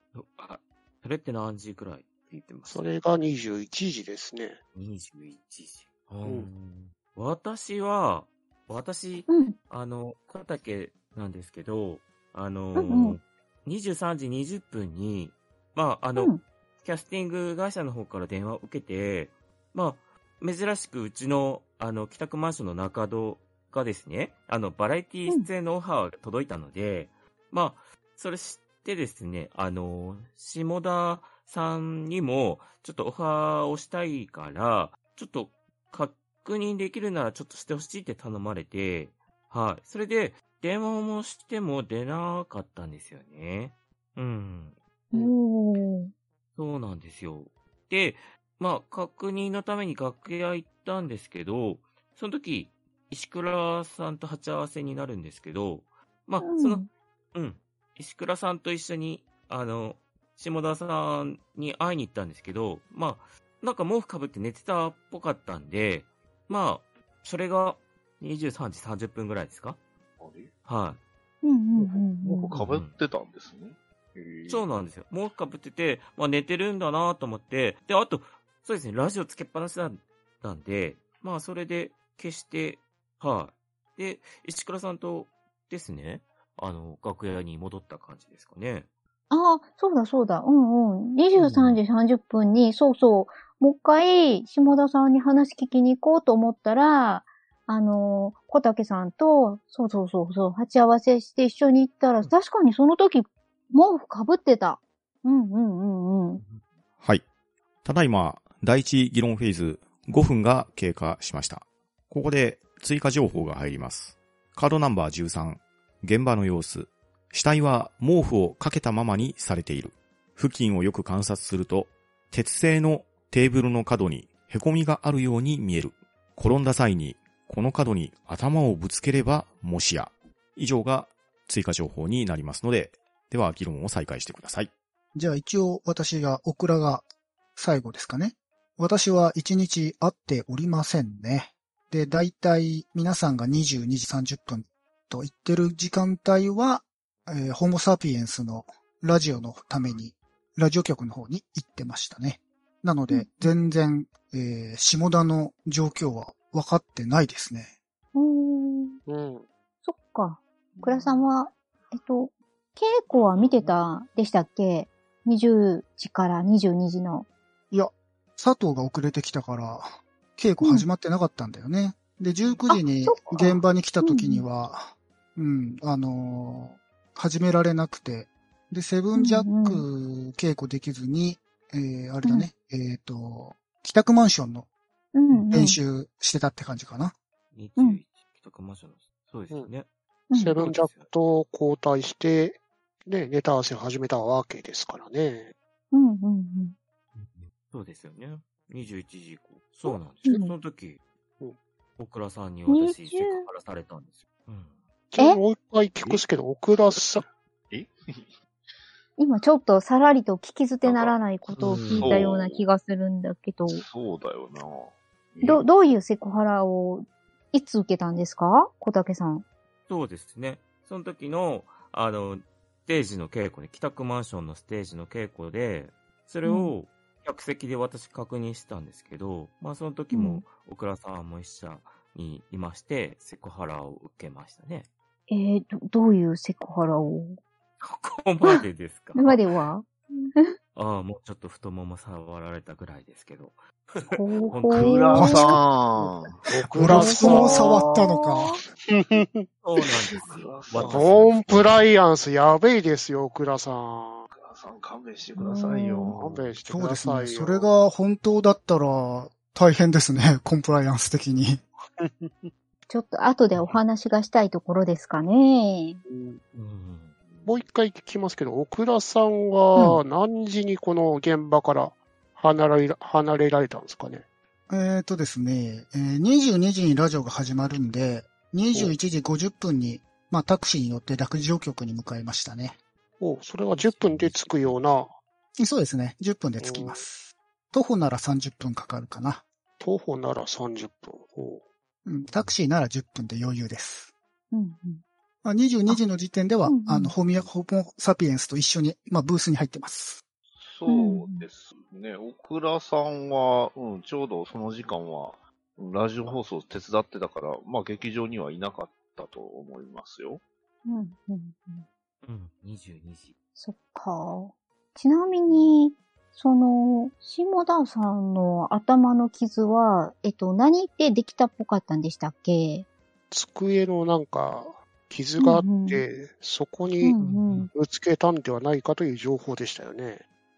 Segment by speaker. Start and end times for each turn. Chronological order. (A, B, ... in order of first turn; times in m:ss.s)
0:00.1-0:02.9 A
0:02.7-0:04.6 B
0:04.8-0:44.8 A
0:09.3-0:09.6 C
0:12.8-0:13.2 C
0:45.1-0:46.1 C
0:46.6-1:09.8 A
0:56.4-0:56.9 C
1:10.2-1:10.5 D
1:10.6-1:11.0 A
1:11.4-1:12.5 C
1:11.8-1:14.6 D
1:12.5-1:12.9 A
1:14.5-1:28.9 A
1:29.3-1:46.4 C
1:31.4-1:31.8 A
1:47.8-2:14.7 E
2:15.2-2:17.0 F
2:17.6-2:37.7 F
2:33.1-2:33.5 C
2:38.2-2:39.0 C
2:39.1-2:39.4 B
2:39.8-2:47.3 C
2:40.7-2:41.2 D
2:43.1-2:43.7 D
2:47.7-3:04.7 F
2:52.7-2:54.4 C
2:59.2-2:59.8 C
3:05.1-3:05.8 C
3:05.5-3:07.1 F
3:07.5-3:09.9 A
3:10.3-3:10.6 C
3:10.3-3:15.5 B
3:10.6-3:11.1 A
3:15.9-3:16.8 C
3:17.2-3:21.0 A
3:19.9-3:20.5 C
3:22.0-3:24.8 A
3:22.7-3:23.5 C
3:25.1-3:27.2 B
3:27.7-3:28.3 D
3:29.2-3:33.8 C
3:30.8-3:31.2 D
3:31.5-3:32.2 A
3:31.9-3:32.6 D
3:33.7-3:35.7 D
3:35.4-3:39.4 C
3:39.9-3:54.9 A
3:46.4-3:46.7 C
3:50.1-3:50.4 C
3:55.3-3:57.4 C
3:57.8-3:59.4 A
3:59.2-4:00.5 C
4:00.8-4:05.5 A
4:04.1-4:05.6 C
4:04.7-4:06.5 D
4:06.5-4:07.8 B
4:06.8-4:08.6 F
4:06.9-4:08.6 C
4:08.8-4:10.1 B
4:09.6-4:11.8 A
4:10.2-4:11.2 D
4:10.7-4:14.3 B
4:14.3-4:16.4 D
4:15.4-4:16.1 C
4:16.1-4:17.7 B
4:16.7-4:21.6 F
4:22.0-4:22.5 B
4:22.9-4:26.0 C
4:23.5-4:23.8 A
4:26.1-4:26.4 B
4:26.5-4:27.1 A
4:27.4-4:34.2 B
4:34.7-4:42.8 F
4:43.2-4:45.1 B
4:43.7-4:44.8 A
4:45.6-4:49.4 F
4:46.6-4:47.0 B
4:49.8-4:51.6 B
4:52.0-4:54.1 F
4:54.5-4:55.0 C
4:55.4-5:00.2 F
4:56.6-4:57.1 C
5:00.6-5:10.4 D
5:00.9-5:01.5 C
5:10.9-5:11.8 C
5:12.2-5:13.3 A
5:13.6-5:22.9 C
5:23.3-5:27.2 B
5:25.4-5:26.0 C
5:27.0-5:27.7 C
5:27.2-5:27.7 A
5:27.7-5:30.2 B